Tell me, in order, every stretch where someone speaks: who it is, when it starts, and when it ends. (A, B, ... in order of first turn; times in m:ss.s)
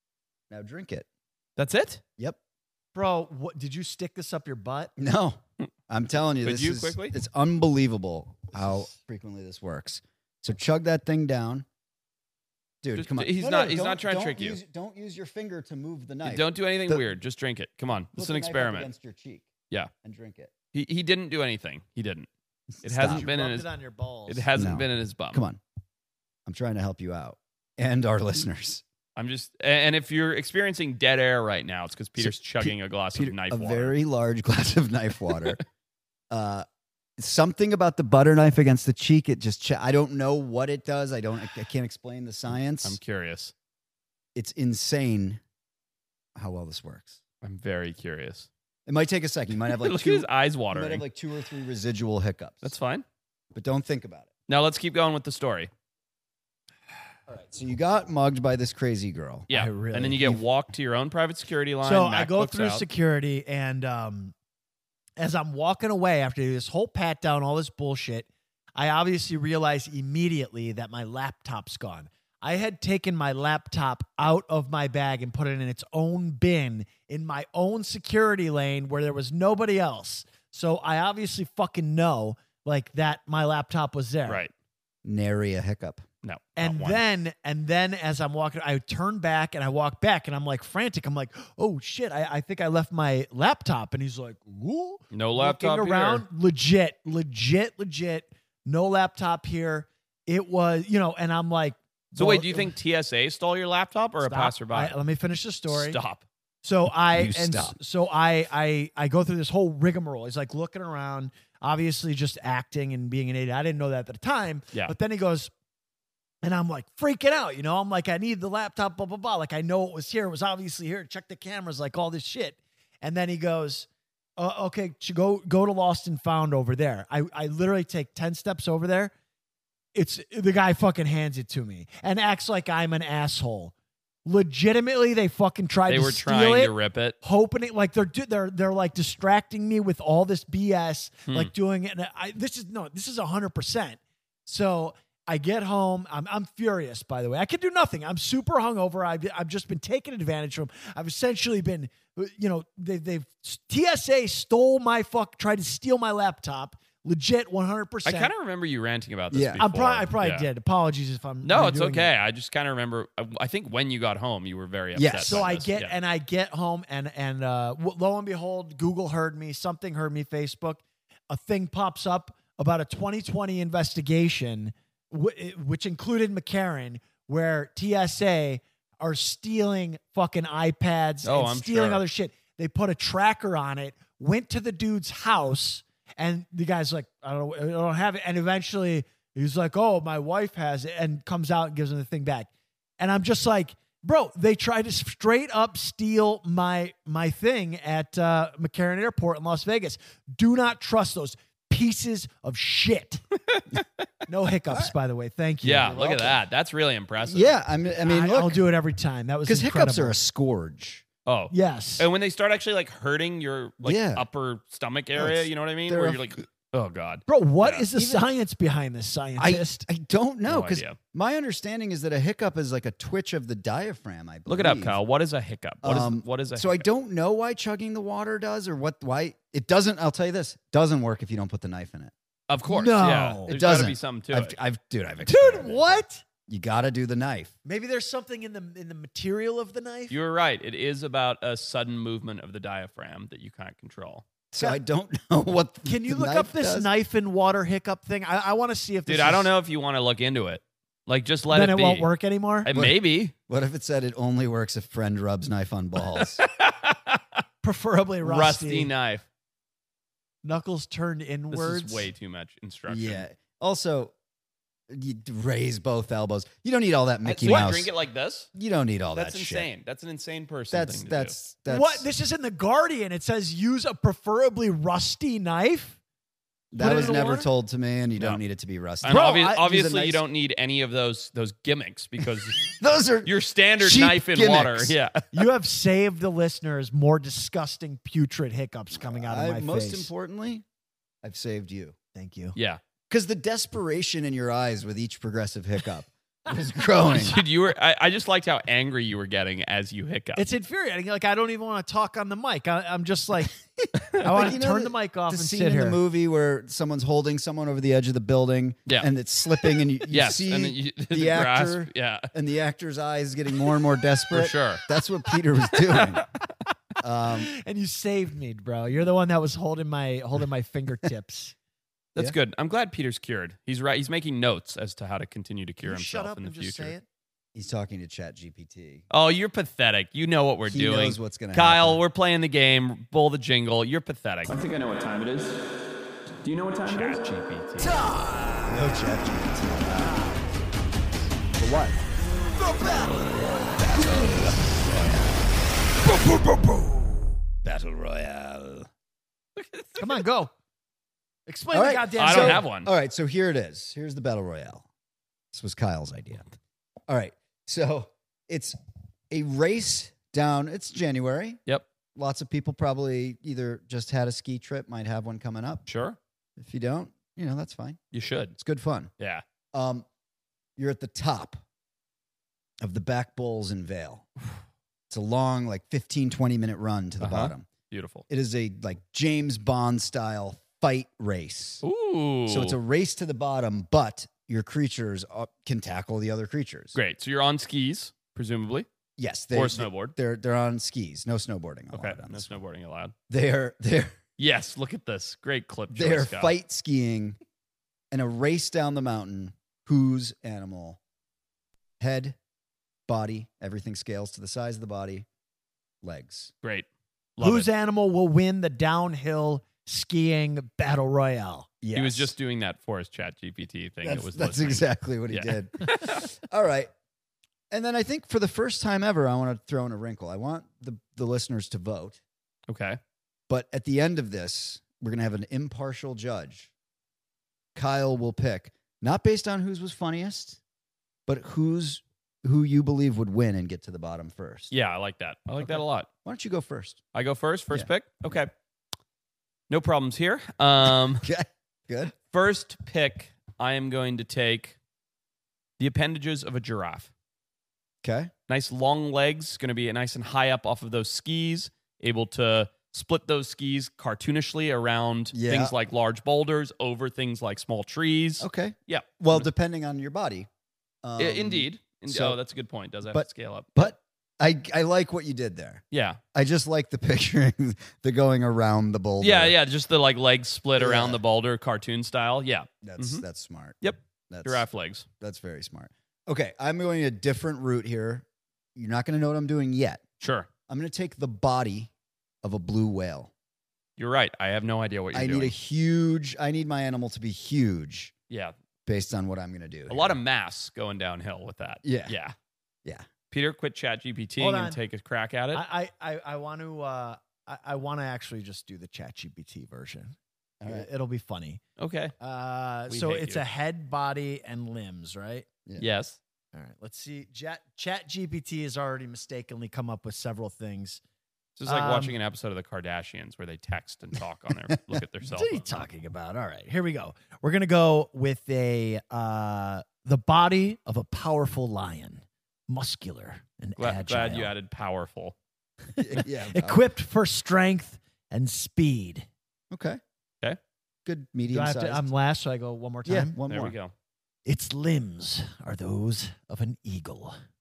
0:00.5-0:01.1 A
0:01.6-0:02.0 B
0:03.0-0:04.9 C
0:05.0-0:11.6 A
0:06.4-0:07.1 B
0:12.8-0:17.0 A
0:13.0-0:14.6 B
0:16.2-0:18.9 B
0:18.2-0:20.5 A
0:20.7-0:22.3 B
0:22.8-0:23.3 A
0:22.8-0:23.7 B
0:23.0-0:24.5 C
0:24.3-0:25.4 B
0:24.6-0:25.6 A
0:26.5-0:28.8 A
0:29.2-0:33.9 B
0:32.2-0:35.6 A
0:36.3-0:36.7 A
0:37.2-0:43.0 A
0:42.8-0:43.5 B
0:44.4-0:45.4 A
0:46.4-0:47.2 A
0:47.4-0:48.5 B
0:48.9-0:52.7 A
0:49.6-0:51.0 B
0:52.6-0:53.0 B
0:53.5-0:54.3 A
0:54.5-0:55.7 B
0:57.3-0:59.5 A
0:59.5-1:02.8 B
0:59.5-1:00.4 C
1:01.8-1:04.3 C
1:05.2-1:24.4 C
1:25.0-1:26.0 A
1:26.2-1:27.0 B
1:26.6-1:42.7 C
1:35.1-1:36.2 B
1:42.2-1:45.0 B
1:44.2-1:46.0 C
1:45.7-1:46.2 B
1:46.6-1:55.5 C
1:47.1-1:47.8 A
1:56.4-2:09.1 C
2:10.0-2:13.7 C
2:14.2-2:38.3 C
2:15.9-2:17.2 B
2:38.1-2:40.5 B
2:39.3-2:39.6 A
2:39.6-2:42.1 C
2:41.4-2:45.9 B
2:45.0-2:45.5 A
2:45.2-3:12.5 C
3:01.2-3:02.0 B
3:13.0-3:23.2 C
3:23.5-3:23.8 B
3:24.3-3:26.3 C
3:25.6-3:27.6 B
3:25.9-3:26.4 A
3:27.2-3:28.6 A
3:28.0-3:30.2 C
3:29.5-3:31.0 A
3:31.3-3:37.9 B
3:31.5-3:32.1 C
3:33.8-3:34.3 A
3:35.2-3:36.3 A
3:37.3-3:39.8 C
3:38.0-3:38.2 A
3:39.4-3:45.0 A
3:40.5-3:41.0 B
3:44.5-3:46.9 B
3:45.8-3:52.1 A
3:52.5-3:54.6 B
3:52.7-3:53.5 C
3:53.5-3:57.5 A
3:55.2-3:56.2 C
3:57.6-4:00.2 C
4:00.1-4:04.2 B
4:04.5-4:06.9 A
4:05.8-4:09.5 C
4:09.1-4:12.1 B
4:11.5-4:12.7 C
4:12.6-4:13.3 B
4:12.7-4:16.4 A
4:16.1-4:17.4 B
4:17.6-4:18.9 C
4:18.2-4:19.2 B
4:20.4-4:22.1 C
4:21.5-4:23.2 B
4:22.9-4:24.1 A
4:24.9-4:27.9 A
4:27.2-4:28.5 B
4:28.6-4:29.7 A
4:29.1-4:31.4 B
4:30.7-4:32.1 A
4:31.7-4:36.0 C
4:36.7-4:40.2 A
4:36.8-4:37.5 C
4:39.0-4:42.7 B
4:39.1-4:39.9 C
4:42.6-4:45.0 A
4:43.2-4:45.3 B
4:45.3-4:50.1 C
4:48.9-4:50.6 A
4:51.2-4:52.0 A
4:52.1-4:52.6 C
4:52.6-4:52.8 B
4:53.1-4:57.4 A
4:57.1-5:00.4 B
5:00.4-5:03.5 C
5:03.8-5:16.2 A
5:04.2-5:06.0 C
5:10.1-5:12.3 B
5:14.3-5:14.8 B
5:15.9-5:16.2 B
5:17.0-5:17.5 A
5:17.3-5:21.6 C
5:22.1-5:26.9 B
5:25.8-5:27.0 C
5:27.6-5:29.0 A
5:29.1-5:35.6 B
5:30.7-5:32.0 A
5:36.4-5:38.0 B
5:37.8-5:40.7 A
5:41.5-5:45.5 A
5:46.0-5:48.9 A
5:49.6-5:50.1 B
5:50.0-5:50.5 C
5:51.5-5:52.7 C
5:51.7-5:54.9 A
5:52.2-5:52.9 B
5:55.5-5:56.4 A
5:57.1-5:58.8 A
5:59.3-6:01.6 A
6:02.1-6:05.8 A
6:05.9-6:06.2 B
6:06.6-6:08.0 A
6:08.1-6:08.5 B
6:08.6-6:09.1 A
6:09.7-6:10.1 A
6:10.8-6:11.6 A
6:12.8-6:14.3 A
6:15.1-6:17.7 A
6:17.2-6:18.2 B
6:18.3-6:21.8 A
6:21.8-6:22.8 B
6:22.5-6:27.0 A
6:26.9-6:28.9 B
6:29.2-6:32.6 A
6:29.5-6:30.1 B
6:31.9-6:33.1 B
6:33.3-6:34.2 A
6:34.4-6:36.5 B
6:35.9-6:37.4 A
6:38.1-6:41.0 A
6:42.0-6:42.4 A
6:43.1-6:45.3 A
6:46.0-6:46.5 A
6:47.4-6:47.7 B
6:47.4-6:51.7 C
6:51.8-6:52.3 A
6:51.9-6:56.3 B
6:54.0-6:56.9 A
6:57.7-7:02.2 A
7:02.7-7:03.0 B
7:03.5-7:06.7 A
7:07.8-7:10.6 A
7:11.3-7:14.7 A
7:14.7-7:16.1 B
7:16.2-7:17.0 A
7:17.1-7:18.5 B
7:19.7-7:21.3 B
7:20.9-7:22.1 A
7:22.3-7:24.8 B
7:25.8-7:27.1 B
7:28.0-7:28.3 A
7:28.5-7:39.5 B
7:35.3-7:35.7 A
7:38.4-7:40.5 A
7:41.0-7:42.4 A
7:41.2-7:43.8 B
7:43.1-7:45.8 A
7:45.9-7:46.2 B
7:46.3-7:49.6 A
7:49.2-7:53.2 B
7:50.8-7:51.2 A
7:52.8-7:53.8 A
7:53.8-7:55.1 B
7:54.3-7:54.6 A
7:55.2-8:00.0 A
8:00.2-8:00.5 B
8:00.7-8:01.9 A
8:02.4-8:03.3 A
8:04.0-8:05.5 B
8:05.1-8:08.1 A
8:08.9-8:10.2 A
8:09.9-8:12.3 B
8:11.8-8:12.2 A
8:13.3-8:15.6 B
8:14.4-8:14.8 C
8:15.5-8:21.6 C
8:20.6-8:20.9 A
8:21.8-8:22.1 B
8:22.2-8:25.5 C
8:22.9-8:23.4 B
8:25.8-8:26.2 B
8:26.5-8:31.0 C
8:31.6-8:35.6 B
8:31.7-8:32.1 C
8:35.3-8:44.5 C
8:43.8-8:45.4 B
8:46.0-8:49.3 C
8:46.0-8:46.8 A
8:49.7-8:50.0 A
8:51.1-8:52.1 A
8:51.5-8:53.4 C
8:53.1-8:53.8 A
8:53.5-8:53.9 B
8:54.5-8:57.4 C